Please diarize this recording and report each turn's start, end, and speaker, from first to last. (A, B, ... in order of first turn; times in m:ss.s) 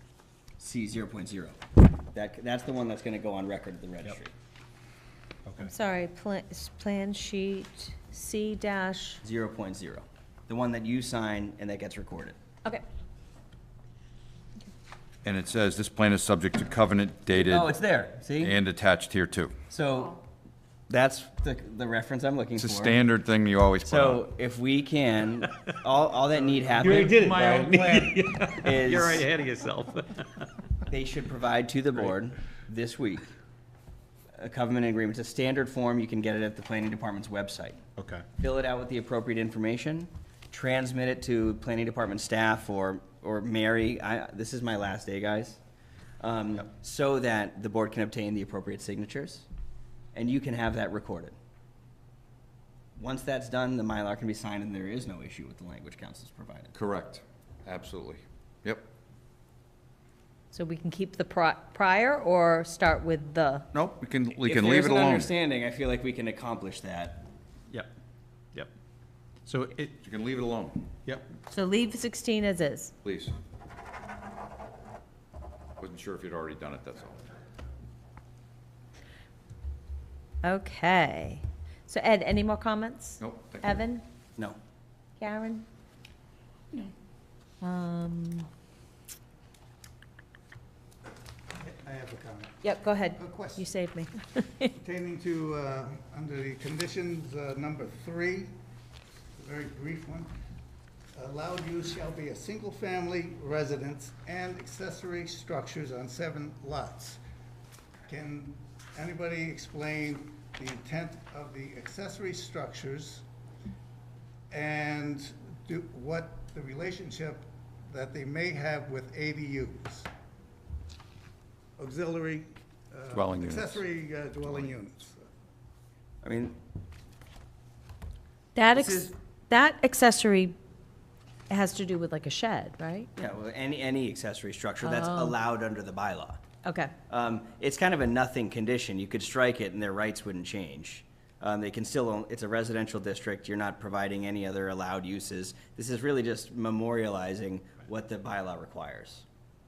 0:00.6-0:04.3 A
0:05.5-0:05.7 B
0:05.6-0:09.2 C
0:09.2-0:12.4 A
0:15.2-0:17.7 D
0:17.3-0:18.6 A
0:18.4-0:19.6 D
0:19.7-0:20.2 A
0:20.9-0:23.0 A
0:22.6-0:24.2 D
0:23.8-0:27.2 A
0:26.6-0:28.3 B
0:26.8-0:30.5 E
0:28.6-0:29.3 A
0:28.9-0:29.2 B
0:30.9-0:33.3 A
0:34.4-0:37.8 A
0:38.0-0:38.2 B
0:38.4-0:45.6 A
0:46.2-0:49.5 A
0:50.1-0:51.4 A
0:53.0-0:56.7 A
0:56.8-0:58.8 D
1:00.5-1:03.7 C
1:03.7-1:05.3 D
1:04.4-1:07.2 A
1:09.4-1:10.0 B
1:10.0-1:10.9 D
1:11.5-1:12.9 C
1:13.0-1:13.4 D
1:15.8-1:17.2 D
1:20.4-1:24.0 C
1:23.2-1:23.8 D
1:25.2-1:25.7 C
1:27.6-1:28.5 C
1:31.6-1:32.6 F
1:32.6-1:34.7 C
1:33.2-1:33.7 F
1:34.7-1:38.6 F
1:39.4-1:40.3 F
1:41.2-1:47.2 F
1:48.1-1:53.2 F
1:54.5-2:00.1 F
2:01.8-2:05.2 F
2:03.1-2:03.8 D
2:06.2-2:06.6 A
2:08.6-2:10.6 C
2:08.7-2:09.1 A
2:11.5-2:13.1 C
2:13.2-2:16.4 A
2:14.8-2:15.4 C
2:16.6-2:16.9 C
2:17.1-2:29.2 A